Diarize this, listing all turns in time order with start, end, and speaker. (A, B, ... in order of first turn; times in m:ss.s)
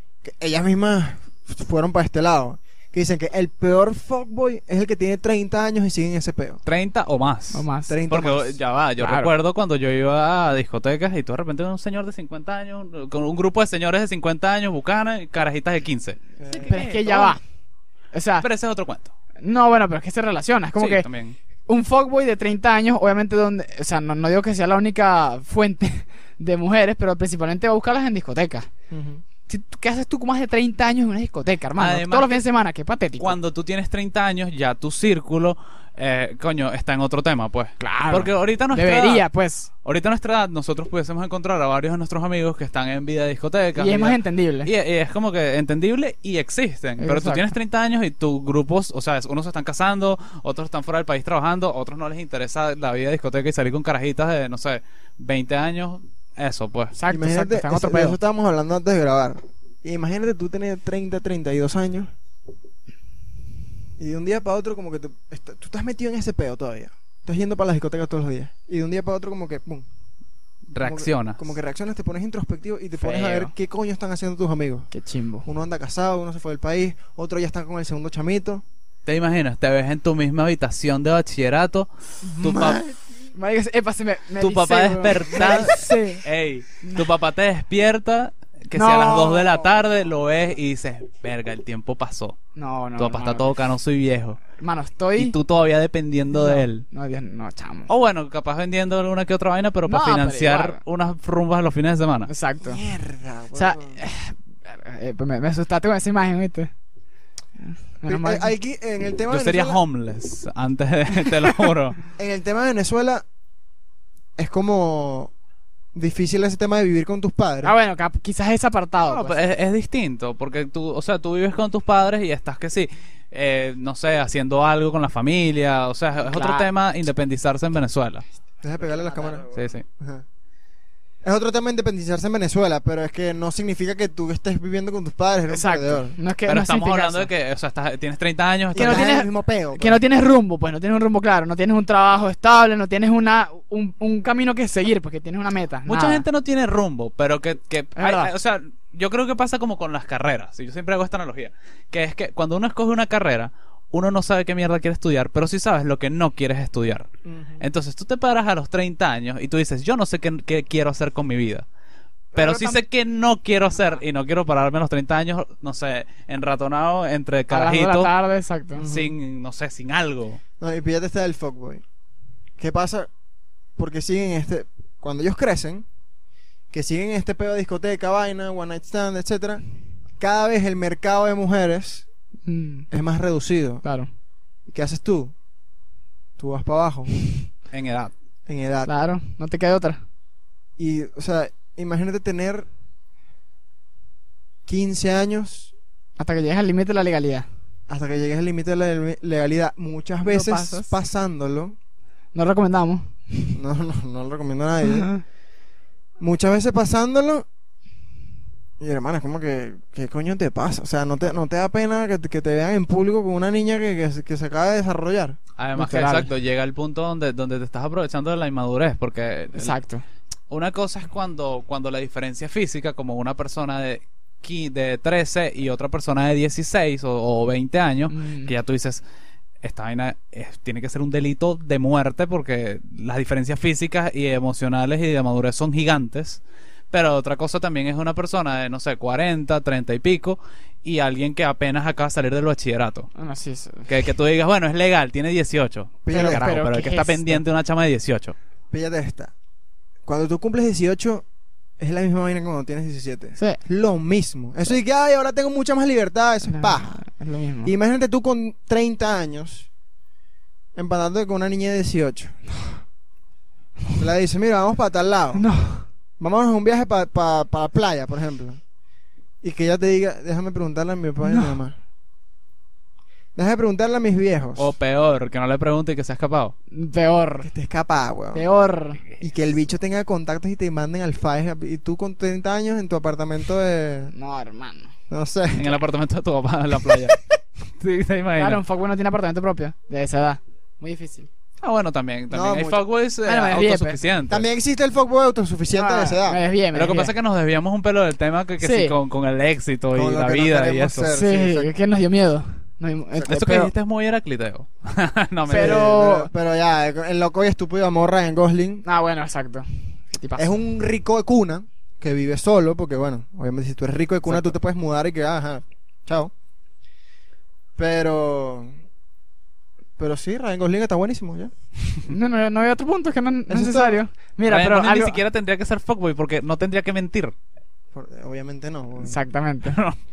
0:00.2-0:06.6 A
0:06.6-0:17.3 B
0:07.5-0:08.0 C
0:07.9-0:08.6 A
0:09.0-0:09.3 C
0:16.4-0:17.3 A
0:16.6-0:17.4 C
0:18.1-0:18.4 C
0:18.4-0:19.1 B
0:19.4-0:21.0 C
0:20.8-0:21.4 B
0:21.7-0:28.7 C
0:28.9-0:29.2 A
0:29.5-0:33.3 C
0:31.8-0:32.4 B
0:33.2-0:39.2 B
0:37.8-0:39.7 C
0:39.8-0:57.0 B
0:43.8-0:44.7 C
0:47.0-0:47.5 C
0:56.9-0:58.2 C
0:57.1-1:02.1 A
1:04.0-1:09.8 A
1:10.7-1:11.4 B
1:10.8-1:14.9 A
1:13.0-1:13.5 C
1:14.9-1:15.5 C
1:15.4-1:18.6 A
1:19.0-1:22.8 B
1:22.3-1:22.8 C
1:22.5-1:22.9 A
1:23.3-1:26.2 C
1:24.4-1:32.4 B
1:25.4-1:25.6 A
1:26.8-1:27.1 C
1:28.7-1:29.7 C
1:32.6-1:33.6 C
1:33.0-1:34.4 B
1:34.5-1:35.4 C
1:35.2-1:36.8 B
1:36.3-1:37.9 C
1:37.9-1:42.3 B
1:39.8-1:40.8 C
1:42.3-1:42.8 C
1:42.6-1:44.0 A
1:43.5-1:46.7 C
1:47.6-1:48.5 C
1:48.0-1:49.8 A
1:49.3-1:52.0 B
1:52.2-1:53.2 A
1:54.4-1:55.3 A
1:55.9-1:57.7 A
1:57.6-1:59.4 C
1:59.0-2:08.2 B
2:06.3-2:06.7 C
2:08.6-2:10.2 A
2:09.5-2:09.8 B
2:11.2-2:16.1 A
2:15.5-2:17.3 C
2:16.5-2:19.1 B
2:18.7-2:20.0 A
2:18.8-2:26.2 C
2:25.8-2:37.1 B
2:28.0-2:28.3 C
2:37.2-2:37.6 A
2:37.6-2:41.6 B
2:42.3-2:48.1 B
2:42.4-2:42.7 C
2:47.5-2:48.9 C
2:48.8-2:49.1 A
2:48.8-2:50.4 B
2:50.6-2:51.8 A
2:52.6-2:53.1 A
2:53.8-2:55.8 A
2:56.7-2:59.6 A
3:00.2-3:02.0 A
3:02.4-3:02.9 C
3:02.9-3:03.8 A
3:04.7-3:05.3 A
3:06.4-3:07.1 A
3:07.7-3:08.1 B
3:08.5-3:08.9 A
3:08.8-3:10.0 C
3:10.8-3:12.7 A
3:14.7-3:15.7 A
3:16.2-3:17.5 C
3:17.9-3:21.8 A
3:20.2-3:20.9 C
3:22.3-3:23.5 C
3:23.5-3:25.1 A
3:24.8-3:25.2 C
3:26.2-3:27.4 A
3:28.8-3:35.4 A
3:35.6-3:39.7 B
3:35.8-3:36.3 C
3:39.5-3:40.0 C
3:40.5-3:49.0 B
3:48.1-3:48.5 C
3:49.6-4:03.1 B
4:03.1-4:03.9 C
4:03.9-4:08.4 B
4:06.0-4:06.5 A
4:06.1-4:07.4 C
4:08.7-4:09.3 A
4:10.0-4:11.2 A
4:11.8-4:17.0 A
4:16.4-4:17.7 C
4:17.6-4:19.7 A
4:20.7-4:22.4 A
4:24.0-4:25.4 A
4:25.3-4:25.8 C
4:26.2-4:28.6 A
4:29.4-4:31.8 A
4:31.2-4:31.6 C
4:33.4-4:34.7 A
4:34.6-4:36.5 B
4:36.7-4:37.5 C
4:37.4-4:38.4 A
4:38.3-4:39.0 C
4:39.2-4:44.1 A
4:44.1-4:44.9 C
4:45.1-4:45.7 A
4:45.5-4:47.2 B
4:47.7-4:48.6 B
4:48.4-4:51.3 C
4:51.6-4:54.4 B
4:52.3-4:52.8 A
4:53.2-4:54.0 C
4:54.3-4:56.4 A
4:55.7-4:57.1 C
4:56.7-5:01.1 B
4:58.6-4:59.0 C
4:59.9-5:01.7 A
5:01.1-5:03.7 C
5:03.3-5:05.9 B
5:05.5-5:06.3 C
5:05.5-5:08.8 A
5:08.8-5:10.5 C
5:10.4-5:16.3 A
5:17.8-5:18.8 A
5:20.0-5:21.5 A
5:22.1-5:25.2 C
5:23.5-5:24.0 A
5:24.4-5:27.3 B
5:27.9-5:29.2 A
5:29.0-5:29.8 C
5:29.6-5:30.0 B